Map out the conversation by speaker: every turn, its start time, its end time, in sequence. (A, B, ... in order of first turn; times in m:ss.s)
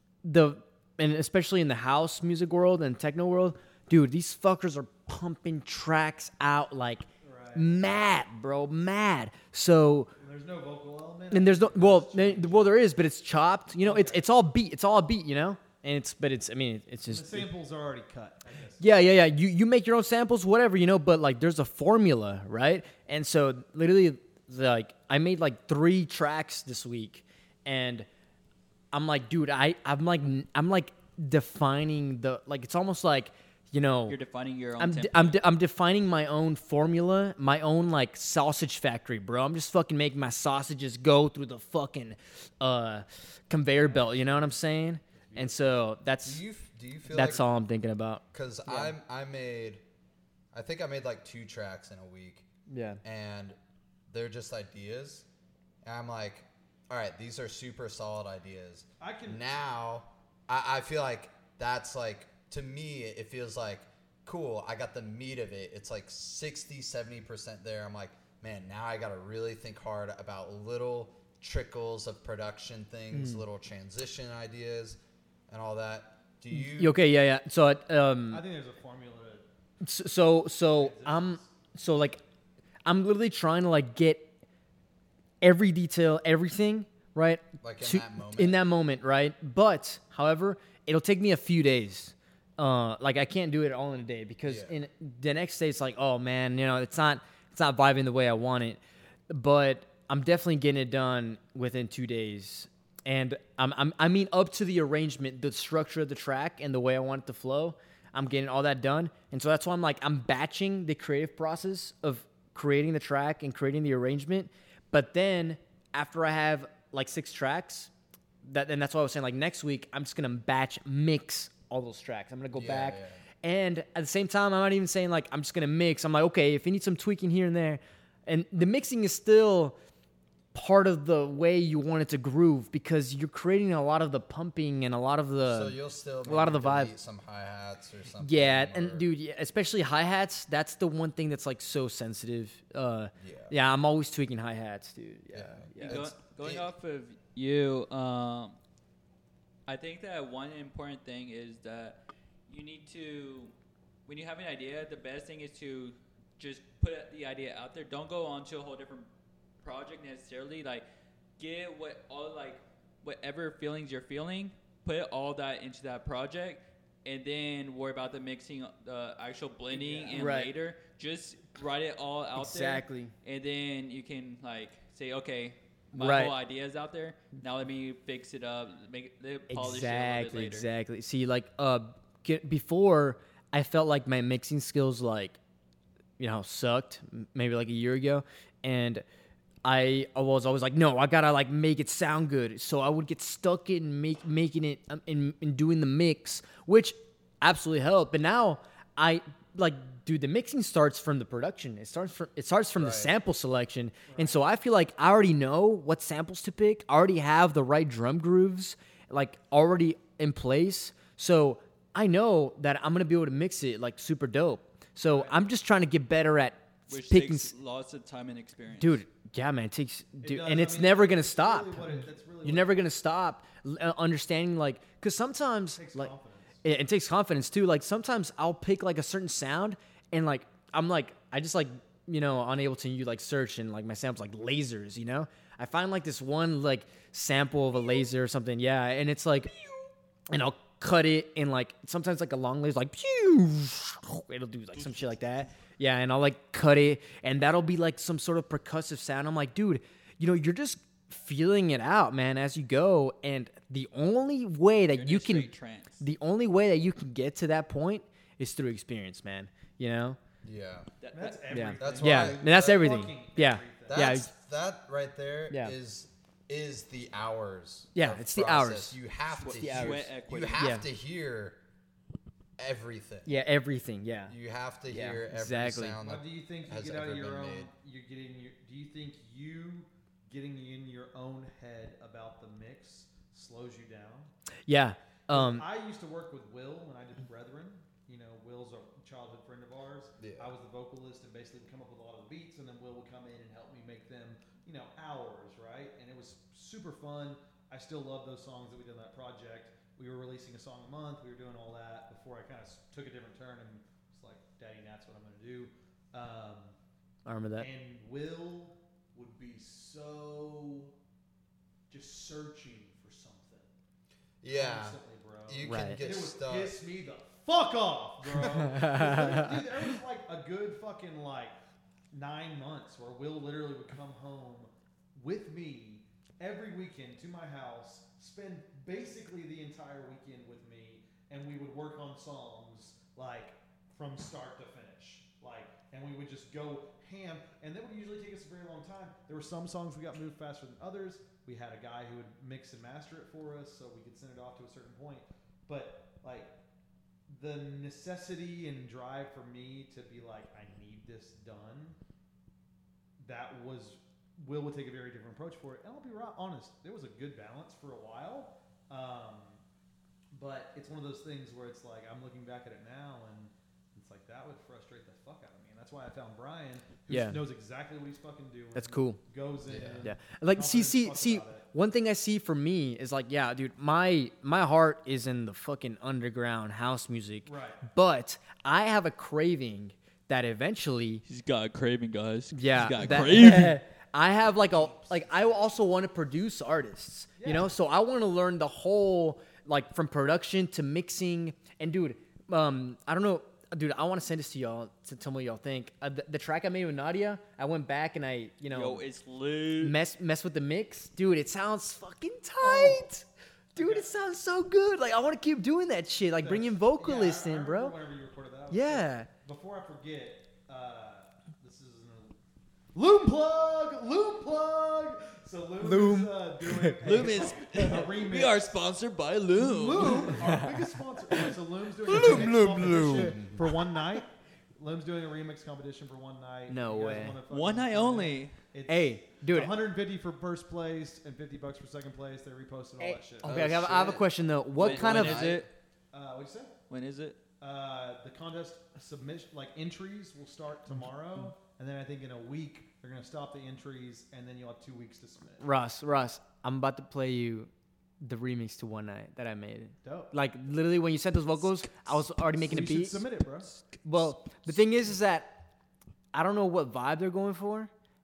0:00.2-0:10.1 A
0:07.2-0:07.8 B
0:10.2-0:12.8 B
0:11.3-0:17.5 A
0:13.8-0:14.2 B
0:17.1-0:18.9 B
0:18.8-0:28.1 A
0:28.9-0:34.2 A
0:34.1-0:35.4 C
0:34.8-0:46.4 A
0:43.8-0:44.6 B
0:45.2-0:45.6 B
0:46.2-0:47.6 D
0:47.1-0:49.0 A
0:48.3-0:49.8 D
0:50.5-0:52.5 D
0:52.7-0:53.0 A
0:53.0-0:53.6 D
0:54.1-0:55.3 D
0:55.8-1:15.0 D
0:59.0-0:59.4 B
1:13.1-1:13.4 A
1:15.5-1:17.0 D
1:16.5-1:18.4 A
1:18.3-1:19.4 B
1:19.8-1:22.2 A
1:20.8-1:21.5 B
1:22.8-1:24.3 A
1:25.4-1:57.9 A
1:27.6-1:28.6 D
1:34.4-1:34.7 D
1:58.4-2:09.8 A
2:02.5-2:03.2 D
2:10.5-2:16.9 A
2:15.4-2:19.1 D
2:18.2-2:26.0 A
2:23.2-2:23.5 D
2:25.3-2:26.7 D
2:25.8-2:28.6 C
2:29.7-2:33.5 C
2:34.1-2:39.1 C
2:39.6-2:40.8 C
2:41.4-3:00.7 C
2:49.7-2:50.2 B
2:50.1-2:50.5 A
2:52.4-2:53.1 A
2:55.9-2:56.4 A
2:59.5-3:05.4 A
3:06.2-3:09.0 A
3:09.6-3:37.5 A
3:22.8-3:23.1 D
3:24.1-3:24.5 B
3:35.1-3:35.4 B
3:36.9-3:39.0 C
3:38.8-3:46.1 A
3:40.2-3:42.8 B
3:45.8-3:46.6 B
3:46.6-3:59.5 A
4:00.3-4:20.2 A
4:14.9-4:16.0 C
4:20.4-4:20.9 D
4:21.0-4:21.7 C
4:21.1-4:24.1 B
4:21.5-4:24.3 A
4:21.8-4:22.8 D
4:23.9-4:31.6 D
4:25.5-4:25.8 A
4:28.0-4:29.0 A
4:29.4-4:30.7 C
4:29.5-4:30.9 A
4:32.6-4:33.3 D
4:33.3-4:34.4 A
4:34.3-4:37.7 D
4:34.9-4:36.0 A
4:36.0-4:44.3 B
4:44.7-4:45.7 A
4:45.3-5:06.8 B
4:50.2-4:50.5 D
5:07.3-5:07.7 A
5:07.6-5:10.9 B
5:11.9-5:13.7 B
5:14.4-5:16.7 D
5:14.5-5:21.6 B
5:15.6-5:16.0 A
5:18.4-5:19.8 A
5:22.1-5:46.5 B
5:47.3-5:52.0 B
5:53.2-5:59.6 B
6:00.3-6:11.7 B
6:07.1-6:07.4 A
6:08.8-6:09.2 A
6:09.7-6:10.1 D
6:10.0-6:21.2 A
6:17.4-6:17.8 B
6:21.3-6:23.8 C
6:22.5-6:39.0 A
6:24.5-6:25.8 B
6:27.4-6:27.7 B
6:38.7-6:40.0 C
6:39.8-6:48.0 A
6:42.6-6:43.0 B
6:43.8-6:44.1 B
6:46.4-6:52.4 B
6:48.7-6:49.3 A
6:52.9-6:58.7 B
6:55.8-6:57.5 A
6:57.0-7:00.4 C
6:59.6-7:13.9 B
7:00.4-7:00.8 A
7:02.0-7:03.4 C
7:02.1-7:03.4 A
7:02.8-7:03.5 D
7:06.7-7:07.4 A
7:07.5-7:08.6 C
7:08.9-7:09.8 A
7:13.0-7:15.6 A
7:13.4-7:15.7 D
7:14.8-7:15.7 C
7:16.1-7:16.8 B
7:16.9-7:17.4 C
7:17.6-7:25.6 B
7:25.6-7:27.7 A
7:28.2-7:33.3 A
7:30.0-7:30.3 B
7:32.5-7:33.7 B
7:34.0-7:35.6 A
7:36.3-7:37.9 A